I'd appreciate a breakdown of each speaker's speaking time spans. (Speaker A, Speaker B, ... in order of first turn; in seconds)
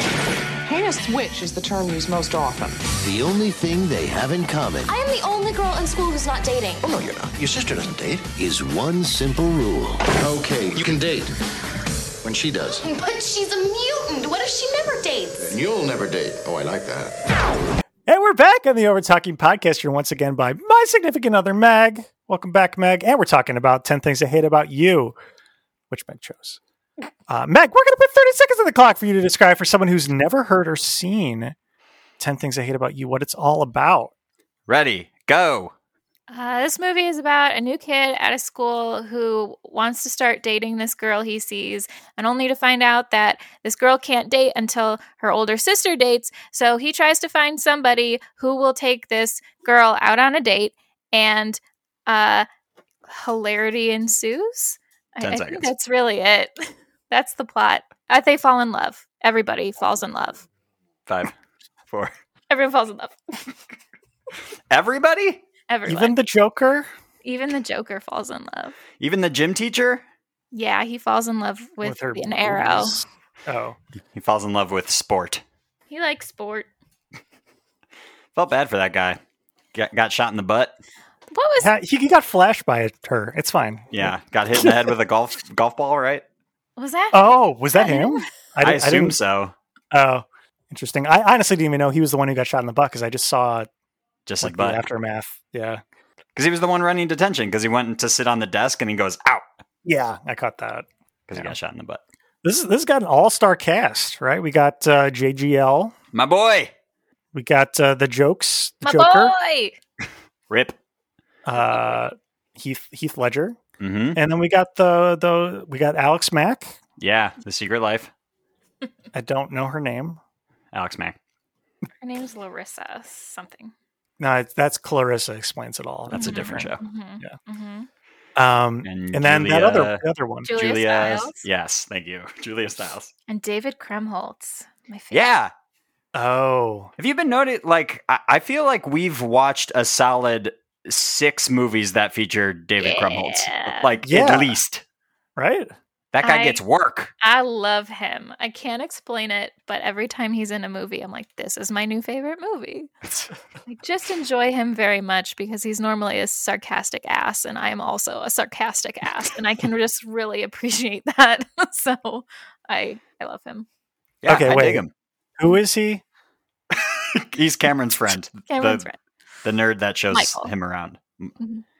Speaker A: 0.6-2.8
Speaker B: 3.0-4.9, 7.4-10.0
Speaker C: 4.8-6.8, 12.8-15.6
Speaker D: 6.8-8.2, 10.1-11.3, 12.2-12.8, 15.4-17.1
Speaker E: 18.1-25.1, 25.9-26.6, 27.3-31.5, 32.2-34.1, 65.9-66.9, 71.8-73.8, 81.6-84.9, 87.1-89.2, 89.9-93.7, 94.4-95.8, 99.8-101.5, 102.4-105.9, 107.3-109.3, 111.5-113.6, 114.1-116.8, 119.1-120.2, 124.2-127.4, 128.3-130.5, 136.1-136.9, 144.1-144.6, 145.4-145.7, 164.3-164.8, 165.4-166.0
Speaker F: 34.7-35.7, 55.2-55.7, 61.1-61.3, 64.7-65.4, 69.0-70.0, 74.1-75.4, 78.3-79.2, 79.7-80.7, 83.9-86.2, 88.6-89.5, 94.3-94.8, 96.3-99.5, 101.3-102.0, 106.1-106.7, 110.5-110.8, 113.8-114.2, 117.0-118.1, 120.7-121.2, 126.1-126.8, 128.8-133.1, 135.1-135.5, 137.0-144.8, 146.1-147.1, 164.2-164.9, 166.7-168.9, 169.4-171.3
Speaker G: 36.3-52.5, 53.1-60.5, 62.5-63.4, 65.7-66.1, 67.2-68.8, 70.5-73.0, 75.9-76.7, 81.3-81.7, 86.8-88.3, 108.8-109.8, 122.0-123.7, 126.2-127.9, 130.5-131.4, 133.3-135.3, 142.8-144.0, 146.2-146.6, 147.2-152.9, 153.7-163.7, 168.5-168.9, 170.1-170.5, 171.4-171.6